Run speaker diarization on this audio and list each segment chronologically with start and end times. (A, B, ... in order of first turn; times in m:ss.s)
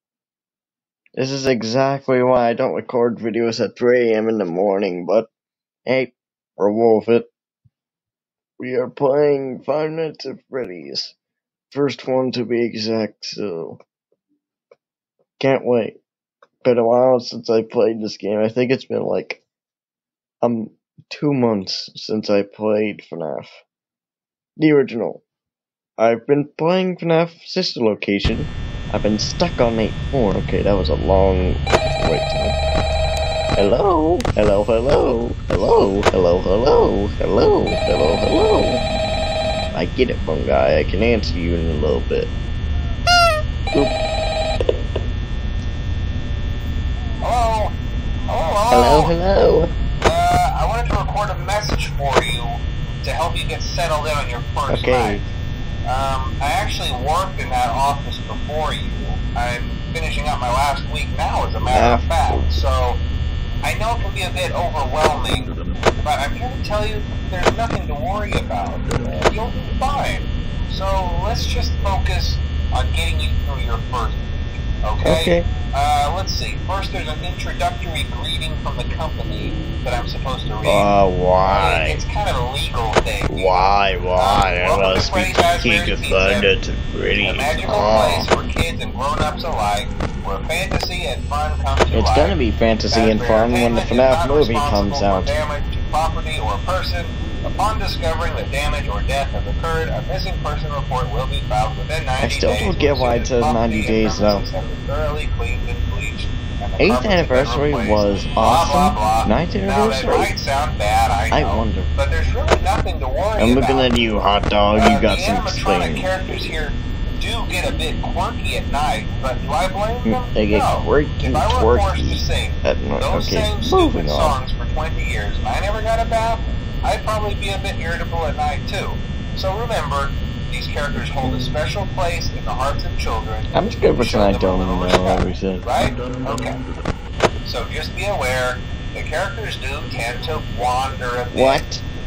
0:01.2-0:05.3 A
0:05.9-0:07.3 A
0:08.6-0:11.2 A
0:11.7-0:13.8 A
0:15.4-0:16.0 A
0:16.6-0:19.4 A
0:20.4-0:23.6 A
0:24.6-0:25.2 A
0:26.0-0:32.6 A
0:33.6-0:38.8 A
0:39.7-0:42.3 A
0:47.2-0:47.8 B
0:48.3-0:49.1 B
0:48.7-0:49.7 A
0:50.0-0:55.3 B
0:54.7-0:55.2 A
0:55.9-1:03.0 B
1:01.7-1:02.5 A
1:03.6-1:20.9 B
1:15.0-1:15.5 A
1:20.6-1:22.0 A
1:21.5-1:23.6 B
1:23.3-1:28.3 A
1:24.2-1:26.5 B
1:27.2-1:32.4 B
1:31.9-1:35.3 A
1:32.9-1:53.9 B
1:42.2-1:44.4 A
1:46.8-1:50.3 A
1:51.3-1:51.9 A
1:53.4-1:56.4 A
1:54.8-2:16.6 B
2:00.0-2:04.4 A
2:11.2-2:11.6 A
2:13.5-2:15.6 A
2:17.4-2:21.6 B
2:21.3-2:21.8 A